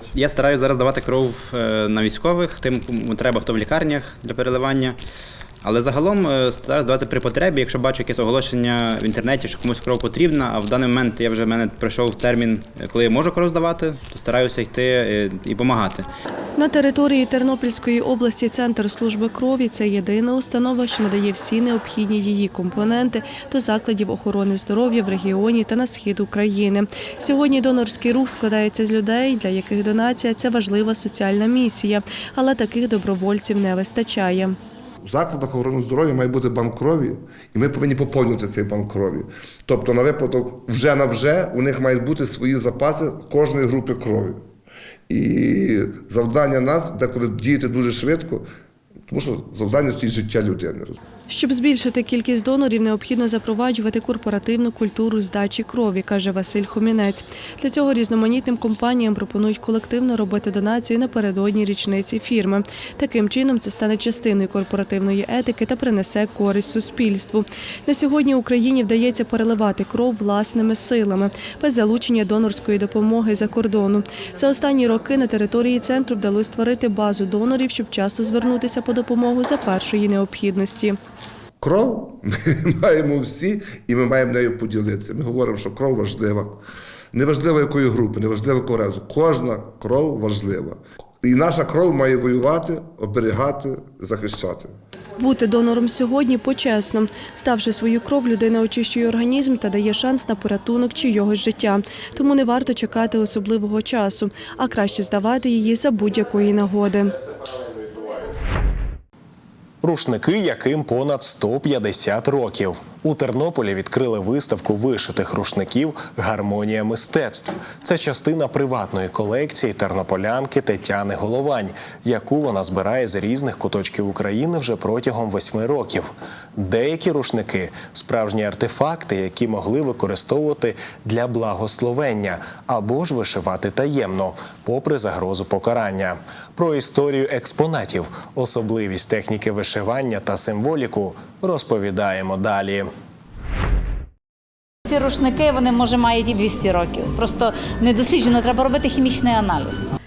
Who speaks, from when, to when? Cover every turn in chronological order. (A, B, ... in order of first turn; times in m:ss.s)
0:00.2-0:05.0 A
0:05.6-0:16.1 A
0:16.6-0:34.6 B
0:35.0-0:44.4 C
0:45.1-0:48.5 C
0:49.1-0:51.0 C
0:51.3-1:21.0 B
1:21.6-1:26.6 C
1:27.1-1:34.7 C
1:35.2-1:47.2 B
1:49.8-2:22.9 D
2:24.9-2:29.9 E